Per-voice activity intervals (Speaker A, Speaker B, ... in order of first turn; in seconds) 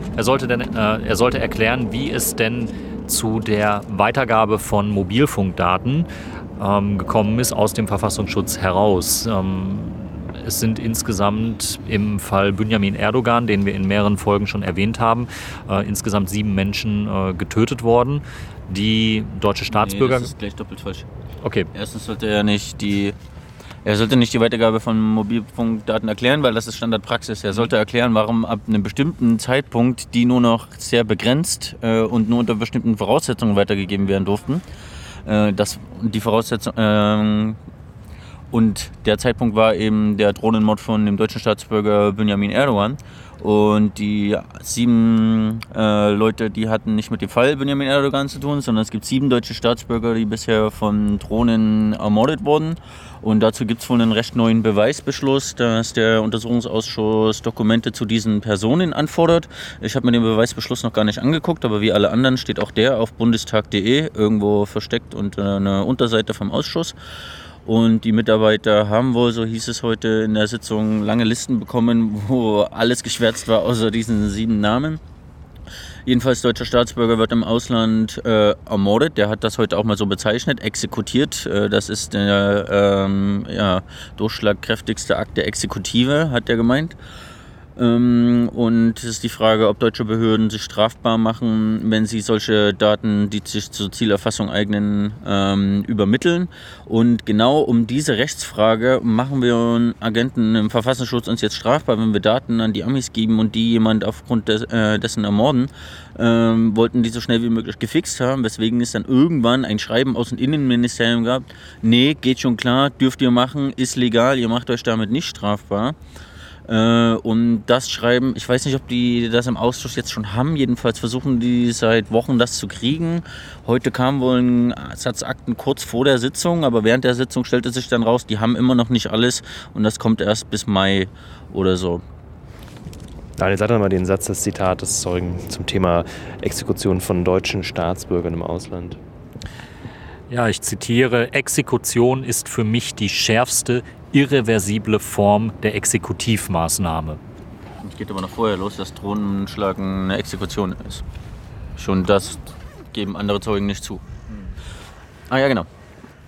Speaker A: 0.1-20.3, 21.4-21.7, 140.3-147.2
Speaker B: 19.7-21.1, 21.7-23.1, 23.8-34.6, 35.2-37.6, 38.5-66.9, 67.7-75.0, 76.0-87.0, 87.8-116.0, 116.7-132.0, 147.8-151.0, 151.8-154.0, 155.3-155.7
Speaker C: 133.4-139.0